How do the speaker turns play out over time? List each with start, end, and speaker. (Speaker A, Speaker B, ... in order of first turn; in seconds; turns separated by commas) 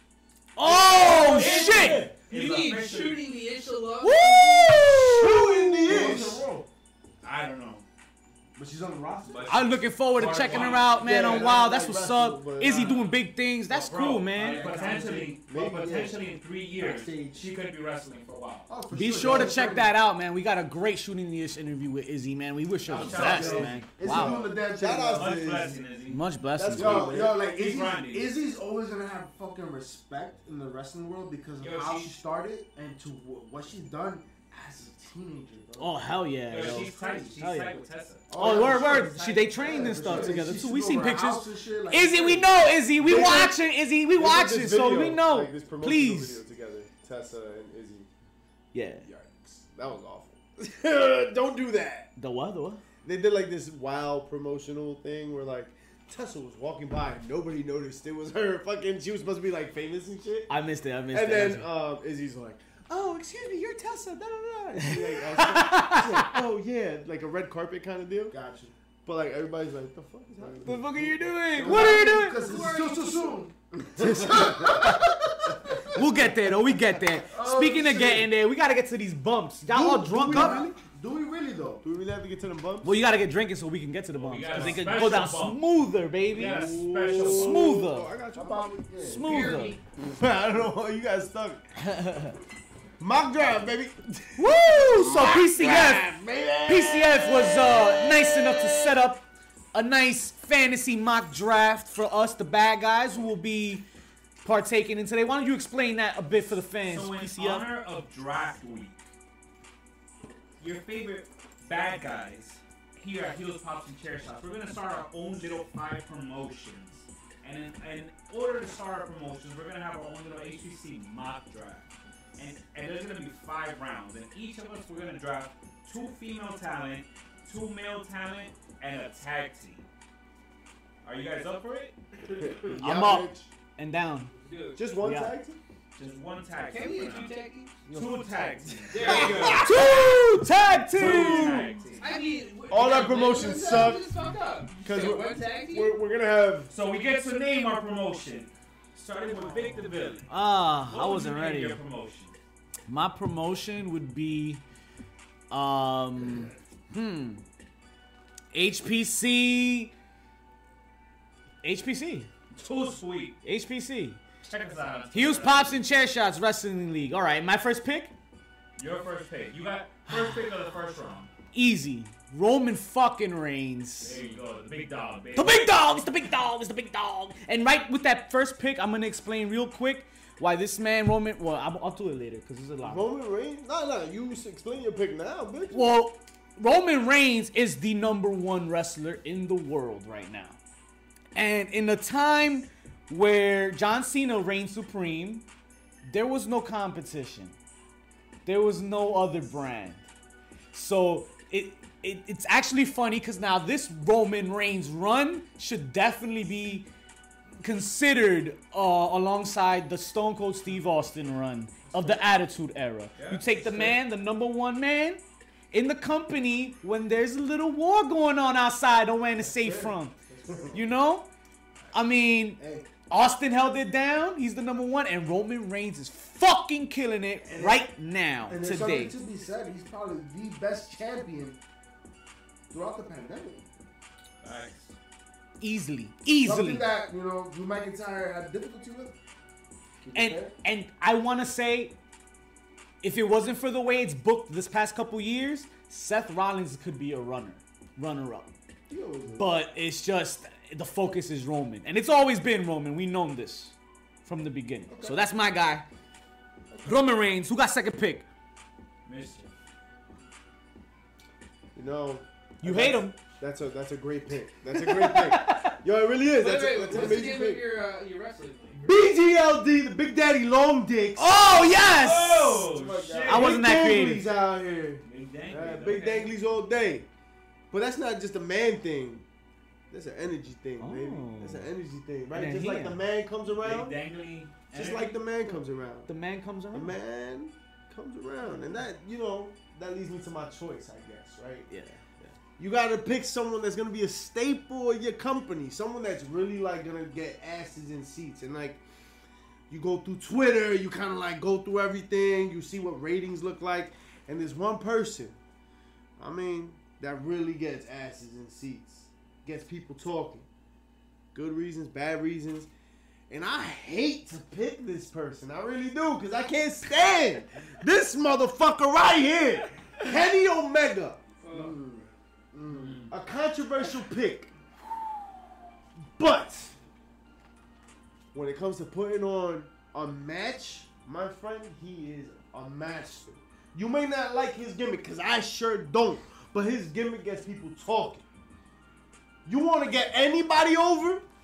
Speaker A: 0.6-2.1, Speaker B: 0.9-3.2, Speaker C: 0.9-1.4, Speaker D: 1.0-2.1, Speaker E: 1.5-4.9, Speaker A: 4.0-5.7, Speaker D: 5.1-6.4, Speaker C: 5.6-6.7, Speaker B: 7.2-7.8, Speaker C: 8.6-9.7, Speaker B: 9.2-10.9, Speaker A: 9.5-14.8, Speaker C: 10.4-11.7, Speaker D: 11.0-12.9, Speaker B: 12.6-18.7, Speaker C: 14.3-16.2, Speaker D: 15.5-16.1, Speaker C: 16.8-17.5, Speaker C: 18.7-19.9, Speaker A: 18.9-24.4, Speaker B: 22.9-23.8, Speaker C: 22.9-25.6, Speaker D: 23.1-25.8, Speaker B: 25.1-26.2, Speaker A: 26.1-27.2, Speaker D: 26.5-27.4, Speaker C: 26.8-36.1, Speaker B: 27.3-28.4, Speaker B: 31.6-32.2, Speaker A: 35.8-46.4, Speaker B: 36.5-40.3, Speaker C: 38.3-42.5, Speaker D: 43.0-43.6, Speaker D: 44.1-48.1, Speaker A: 48.7-49.1, Speaker D: 49.0-52.1, Speaker A: 52.2-52.8, Speaker D: 53.0-60.5, Speaker A: 60.5-61.7, Speaker D: 61.1-68.3, Speaker A: 64.8-66.4, Speaker C: 68.3-68.7, Speaker D: 69.0-71.8, Speaker A: 70.6-72.4, Speaker C: 71.5-78.3, Speaker E: 71.8-73.4, Speaker A: 74.0-75.1, Speaker D: 74.0-74.8, Speaker A: 75.9-80.7, Speaker D: 79.7-80.8, Speaker C: 80.1-81.8, Speaker D: 81.8-82.9, Speaker A: 82.8-88.1, Speaker B: 84.1-85.6, Speaker D: 84.5-84.8, Speaker B: 86.3-87.7, Speaker D: 86.3-88.7, Speaker C: 88.3-89.6, Speaker A: 89.0-89.8, Speaker E: 89.2-89.8, Speaker D: 90.0-91.6, Speaker A: 91.8-92.3, Speaker D: 93.0-98.9, Speaker A: 94.4-96.1, Speaker C: 95.6-96.1, Speaker A: 96.7-103.8, Speaker A: 104.4-107.7, Speaker B: 106.8-109.0, Speaker B: 110.6-129.8, Speaker B: 131.0-131.9, Speaker D: 132.6-133.5, Speaker A: 132.7-134.3, Speaker E: 134.3-134.8, Speaker D: 134.8-135.6, Speaker A: 135.0-135.3, Speaker B: 135.9-139.9, Speaker E: 136.6-137.7, Speaker D: 137.9-139.8, Speaker E: 138.9-139.8, Speaker A: 139.6-141.7, Speaker B: 140.9-142.1, Speaker D: 140.9-141.8, Speaker E: 142.0-145.9, Speaker D: 142.7-144.1, Speaker B: 142.8-143.3, Speaker D: 144.8-146.7, Speaker B: 146.7-150.3, Speaker A: 150.3-151.8, Speaker B: 150.9-152.3, Speaker A: 152.9-154.6, Speaker A: 155.5-157.4, Speaker A: 158.5-159.9, Speaker A: 161.6-162.3, Speaker B: 162.6-163.3, Speaker A: 163.4-164.2, Speaker B: 164.5-165.8, Speaker A: 165.1-168.1, Speaker B: 168.8-171.3, Speaker A: 170.1-170.5, Speaker A: 171.5-174.2, Speaker B: 174.0-175.7, Speaker A: 175.3-183.1, Speaker D: 182.8-185.9, Speaker A: 185.7-190.6, Speaker A: 191.3-195.4, Speaker A: 196.1-197.5, Speaker A: 198.4-200.0, Speaker A: 200.7-206.9, Speaker A: 207.6-220.1, Speaker B: 213.2-213.9, Speaker C: 219.4-220.8, Speaker A: 220.7-221.3, Speaker A: 221.9-229.2, Speaker C: 222.6-222.9, Speaker C: 227.5-227.8, Speaker C: 228.5-231.6, Speaker C: 232.7-233.6, Speaker B: 234.4-234.9, Speaker A: 235.6-236.8, Speaker C: 236.4-239.1, Speaker C: 240.0-240.5, Speaker A: 240.1-241.9, Speaker A: 243.0-248.5, Speaker C: 248.9-249.5, Speaker A: 249.3-255.8, Speaker C: 254.9-255.2, Speaker C: 256.7-257.0, Speaker A: 256.8-258.2, Speaker B: 259.1-259.5, Speaker D: 261.7-267.6, Speaker A: 262.6-263.2, Speaker A: 264.7-265.8, Speaker E: 266.4-268.8, Speaker D: 268.8-271.3, Speaker A: 271.1-272.7, Speaker B: 271.9-273.6, Speaker C: 272.8-273.2, Speaker D: 273.0-277.1, Speaker A: 273.2-274.3, Speaker B: 275.0-276.3, Speaker D: 277.7-279.2, Speaker D: 279.9-283.9, Speaker A: 280.8-281.7, Speaker A: 282.3-283.0, Speaker B: 283.6-285.2, Speaker D: 284.7-286.1, Speaker A: 286.1-286.9, Speaker D: 286.7-291.7, Speaker A: 291.7-292.3, Speaker D: 292.6-298.8, Speaker D: 299.7-305.4, Speaker D: 306.2-310.4, Speaker D: 311.3-312.7, Speaker D: 313.3-321.2, Speaker E: 321.4-321.8, Speaker C: 321.5-323.1, Speaker B: 322.7-323.1, Speaker D: 323.1-324.5, Speaker D: 326.2-326.7, Speaker D: 328.3-338.2, Speaker D: 339.4-341.2